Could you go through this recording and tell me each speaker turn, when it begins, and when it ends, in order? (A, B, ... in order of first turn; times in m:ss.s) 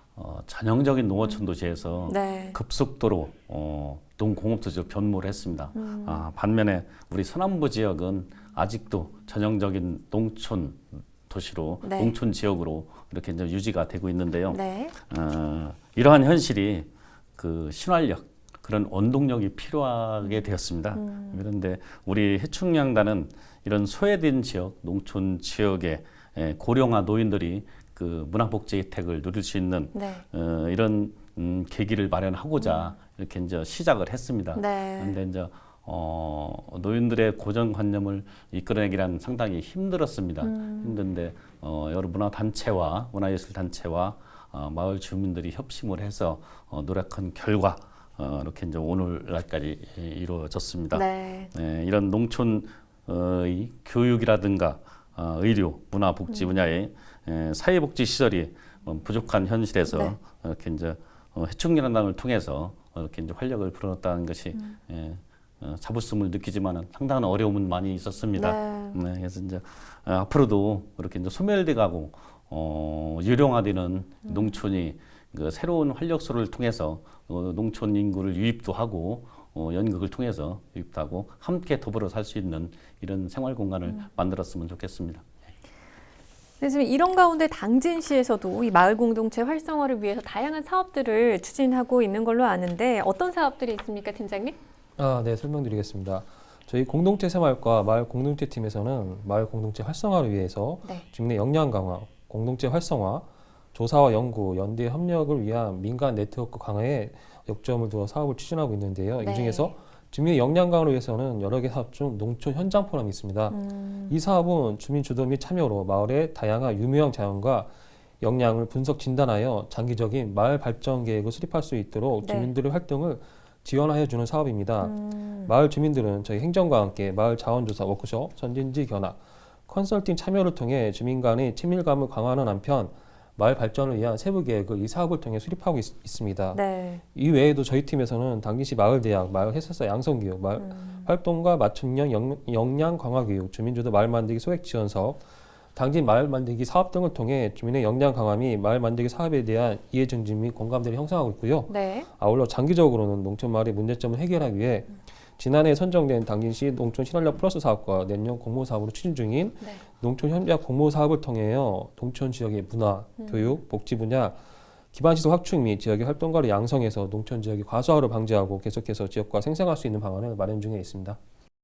0:00.2-1:25.2 A
0:02.1-0:02.6 B
0:05.7-0:06.2 B
0:11.8-0:12.1 B
0:14.5-0:14.9 B
0:20.9-0:21.4 B
0:29.9-0:30.2 B
0:32.6-0:32.9 B
0:34.5-0:35.2 B
0:40.4-0:41.0 B
0:50.9-0:51.5 B
0:56.3-0:56.5 B
0:59.9-1:00.2 B
1:08.4-1:09.0 B
1:14.3-1:14.6 B
1:26.6-1:34.6 B
1:35.0-1:53.6 C
1:49.2-1:49.7 B
1:53.5-1:54.1 B
1:54.1-1:57.7 C
1:58.2-2:04.9 C
2:02.2-2:02.5 B
2:04.8-2:05.5 B
2:05.5-2:16.6 C
2:16.5-2:17.0 B
2:17.1-2:25.2 C
2:20.6-2:21.1 B
2:25.8-2:44.4 C
2:31.7-2:32.1 B
2:43.2-2:43.6 B
2:44.9-2:51.2 C